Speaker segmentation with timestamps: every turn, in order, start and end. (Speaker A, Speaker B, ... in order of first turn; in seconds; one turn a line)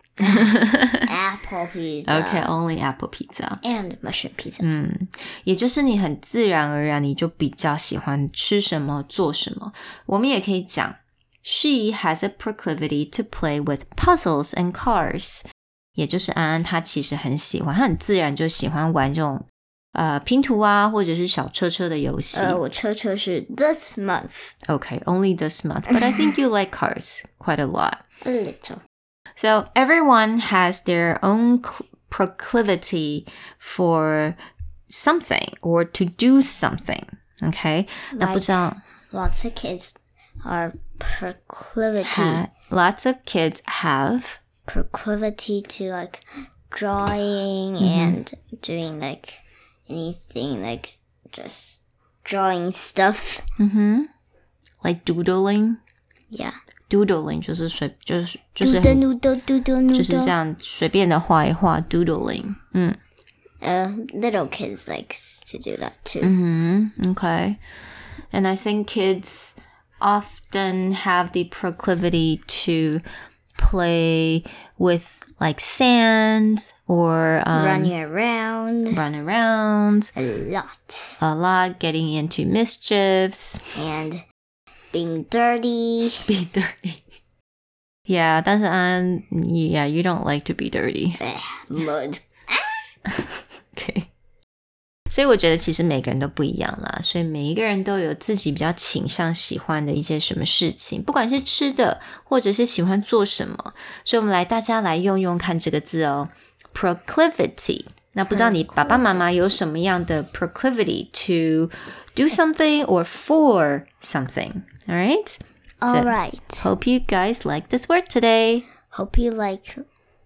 Speaker A: 0.2-0.5
Speaker B: 0.3-1.1
Speaker A: 1.1-2.5
Speaker B: 2.1-3.6
Speaker A: 3.6-4.7
Speaker B: 4.6-15.4
Speaker B: 16.0-22.6
Speaker A: 22.4-24.5
Speaker B: 24.7-28.0
Speaker A: 28.2-28.8
Speaker B: 29.4-34.4
Speaker B: 34.9-38.8
Speaker A: 38.1-38.6
Speaker A: 39.1-42.4
Speaker B: 42.0-44.4
Speaker A: 44.7-53.4
Speaker B: 47.8-48.2
Speaker B: 53.6-54.1
Speaker B: 54.8-55.8
Speaker A: 56.3-56.5
Speaker B: 56.9-59.0
Speaker A: 58.6-60.3
Speaker B: 59.9-63.0
Speaker A: 63.6-66.3
Speaker B: 66.2-67.6
Speaker B: 68.3-73.0
Speaker B: 73.6-77.9
Speaker A: 77.5-79.0
Speaker B: 78.9-80.1
Speaker A: 80.2-81.2
Speaker B: 81.2-83.6
Speaker A: 83.8-84.2
Speaker A: 84.9-86.2
Speaker B: 86.2-87.0
Speaker B: 88.1-91.2
Speaker A: 91.2-92.7
Speaker B: 93.1-94.1
Speaker B: 95.1-118.7
Speaker A: 108.3-109.6
Speaker A: 115.8-116.7
Speaker A: 118.9-119.8